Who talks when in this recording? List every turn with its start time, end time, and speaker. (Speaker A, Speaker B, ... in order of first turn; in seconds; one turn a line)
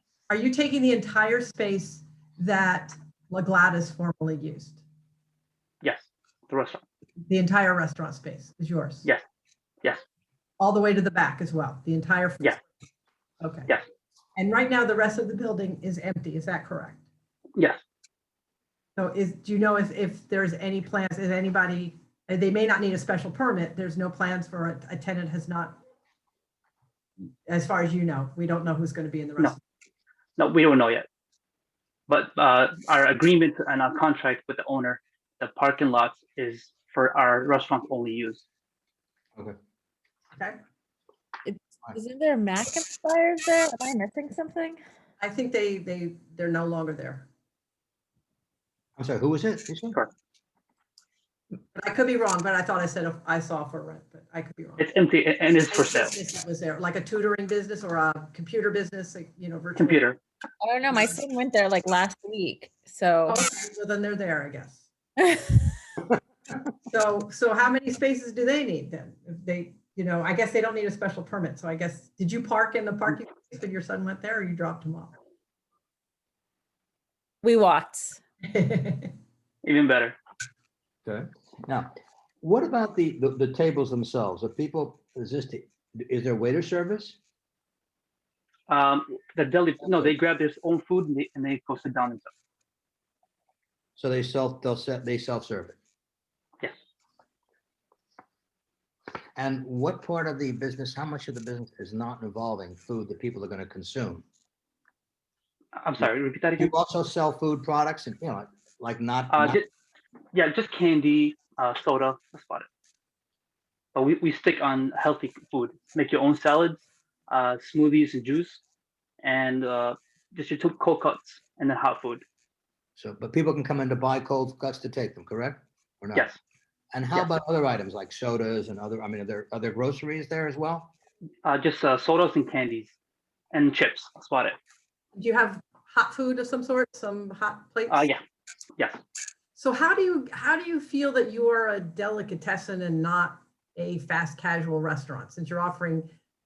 Speaker A: 0.3-4.8
Speaker B: 5.8-6.8
Speaker A: 7.3-9.1
Speaker A: 10.6-12.6
Speaker A: 13.4-13.7
Speaker A: 14.4-17.0
Speaker A: 18.9-25.8
Speaker A: 27.5-29.6
Speaker B: 30.4-31.0
Speaker B: 32.1-38.4
Speaker C: 41.4-44.8
Speaker A: 45.2-47.3
Speaker D: 49.0-50.0
Speaker A: 51.7-54.9
Speaker B: 54.8-56.1
Speaker A: 55.7-60.0
Speaker B: 59.8-60.2
Speaker C: 60.6-63.4
Speaker A: 60.9-61.2
Speaker A: 63.3-64.8
Speaker C: 65.2-65.6
Speaker A: 66.9-75.2
Speaker C: 77.4-78.2
Speaker A: 78.4-79.1
Speaker B: 79.6-80.2
Speaker D: 81.0-81.9
Speaker D: 82.4-87.2
Speaker B: 88.7-92.3
Speaker D: 94.0-95.8
Speaker D: 99.3-104.2
Speaker B: 105.8-106.7
Speaker D: 106.6-109.6
Speaker B: 109.3-109.7
Speaker B: 110.3-112.7
Speaker B: 113.9-118.6
Speaker B: 119.2-122.2
Speaker D: 123.0-126.3
Speaker B: 126.1-126.4
Speaker D: 126.9-130.9
Speaker B: 131.4-132.9
Speaker B: 133.5-134.6
Speaker A: 135.1-138.1
Speaker B: 137.9-138.2
Speaker A: 139.6-146.1